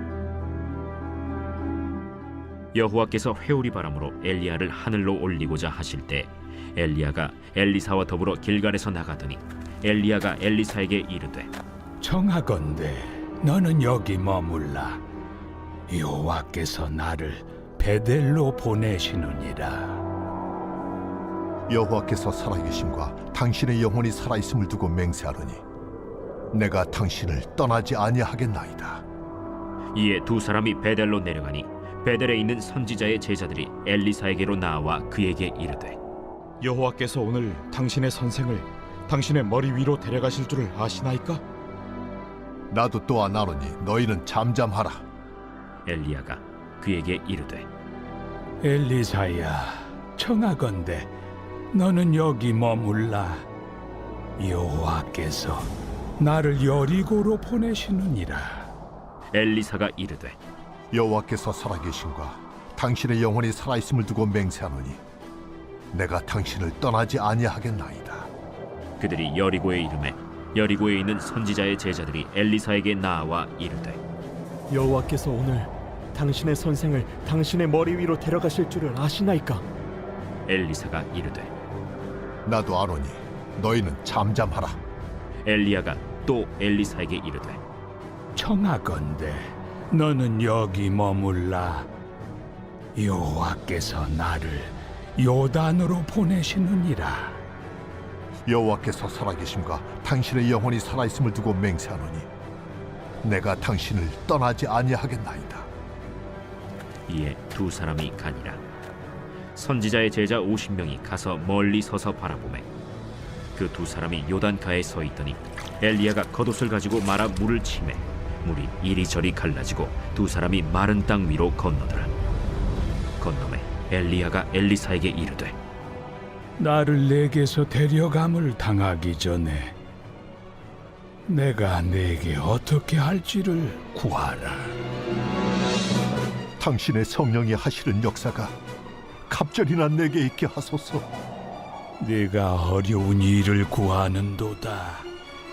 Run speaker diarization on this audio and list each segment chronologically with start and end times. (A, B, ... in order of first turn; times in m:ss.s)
0:02.7-0:11.5 A
0:12.0-0:15.0 B
0:15.9-0:20.0 B
0:21.7-0:25.6 C
0:26.5-0:29.0 C
0:29.9-0:36.0 A
0:36.6-0:41.4 D
0:42.7-0:45.0 C
0:45.8-0:47.7 A
0:48.6-0:51.1 B
0:51.7-0:53.4 B
0:54.4-0:58.7 B
0:59.3-1:00.4 A
1:00.9-1:05.0 C
1:05.9-1:08.3 C
1:09.0-1:14.0 A
1:14.7-1:19.6 E
1:20.5-1:21.5 A
1:22.4-1:24.8 C
1:25.4-1:27.6 A
1:28.4-1:31.9 B
1:33.0-1:37.4 B
1:38.5-1:42.3 C
1:43.2-1:45.7 C
1:47.1-1:48.6 A
1:49.5-1:52.7 A
1:53.6-2:02.1 A
2:03.2-2:05.5 A
2:06.6-2:09.7 B
2:11.3-2:14.7 B
2:16.6-2:18.5 C
2:19.3-2:21.0 C
2:22.0-2:25.0 B